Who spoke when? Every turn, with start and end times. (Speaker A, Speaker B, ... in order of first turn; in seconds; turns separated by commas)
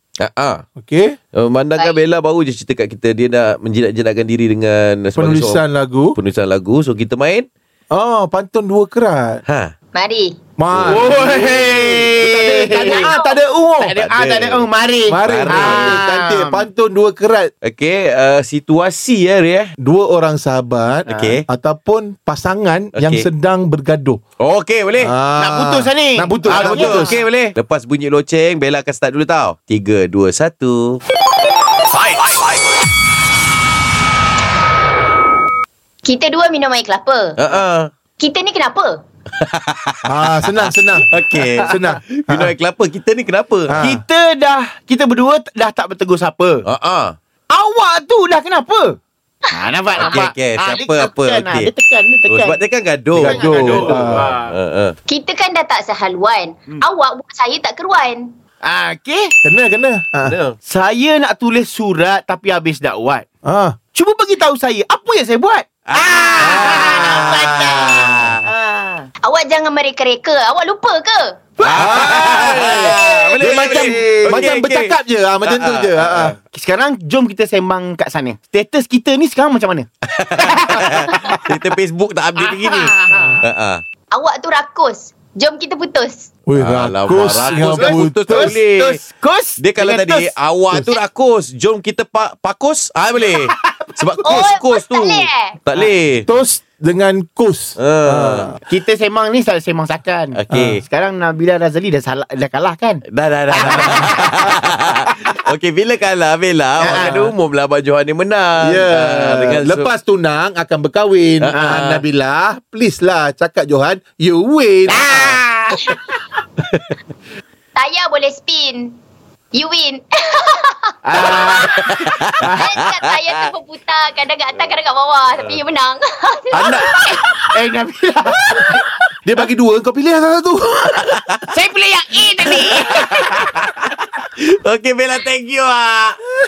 Speaker A: 0.2-0.7, Speaker B: 0.8-1.2, Speaker A: 1.3-5.6, Speaker B: 5.2-6.2, Speaker A: 6.2-7.5, Speaker B: 7.9-9.4, Speaker A: 9.5-9.7, Speaker C: 9.9-10.4, Speaker B: 10.6-14.0, Speaker A: 10.7-12.1, Speaker D: 10.9-13.1, Speaker D: 13.8-16.7, Speaker A: 14.0-14.7, Speaker B: 15.1-17.5, Speaker A: 15.2-15.7, Speaker A: 17.6-19.7, Speaker B: 19.8-24.2, Speaker A: 21.1-21.4, Speaker A: 22.9-23.3, Speaker A: 24.4-25.2, Speaker B: 25.0-27.2, Speaker D: 25.4-27.2, Speaker A: 26.4-31.0, Speaker A: 31.9-32.5, Speaker C: 36.0-37.4, Speaker A: 37.4-37.9, Speaker C: 38.2-39.0, Speaker A: 39.4-40.5, Speaker B: 40.1-42.5, Speaker A: 41.1-43.9, Speaker B: 43.7-44.0, Speaker D: 43.8-46.6, Speaker A: 46.6-47.2, Speaker D: 47.5-49.0, Speaker D: 49.5-52.6, Speaker A: 50.0-51.7, Speaker A: 52.3-55.0, Speaker D: 53.1-54.5, Speaker B: 53.1-54.3, Speaker C: 55.2-58.3, Speaker D: 58.6-59.3, Speaker B: 59.4-60.4, Speaker A: 60.2-60.6, Speaker D: 60.6-63.2, Speaker B: 63.4-63.8, Speaker D: 63.9-69.1, Speaker A: 65.9-68.5, Speaker B: 66.4-68.3, Speaker C: 69.3-71.2, Speaker D: 71.6-74.5, Speaker A: 71.7-76.4, Speaker B: 71.7-76.4, Speaker D: 76.5-79.9, Speaker A: 80.1-83.8, Speaker D: 80.4-81.4, Speaker D: 82.4-83.3, Speaker C: 84.1-86.3, Speaker B: 86.5-88.6, Speaker A: 86.5-89.0, Speaker D: 87.5-90.3, Speaker A: 89.6-96.2, Speaker C: 94.3-95.6, Speaker B: 96.3-98.6, Speaker A: 97.8-98.6, Speaker D: 98.6-104.4, Speaker A: 100.3-100.8, Speaker B: 100.5-100.8, Speaker A: 103.1-109.9, Speaker D: 106.8-107.2, Speaker B: 106.8-107.3, Speaker B: 108.6-115.4, Speaker A: 111.4-112.0, Speaker D: 111.5-111.8, Speaker D: 114.9-116.0, Speaker C: 117.8-119.0, Speaker C: 119.5-120.9, Speaker D: 121.0-122.6, Speaker A: 121.2-123.5, Speaker C: 122.7-126.5, Speaker A: 126.6-126.9, Speaker D: 127.1-128.8, Speaker B: 129.2-131.2, Speaker A: 131.1-131.5, Speaker D: 131.5-133.3, Speaker A: 132.4-136.2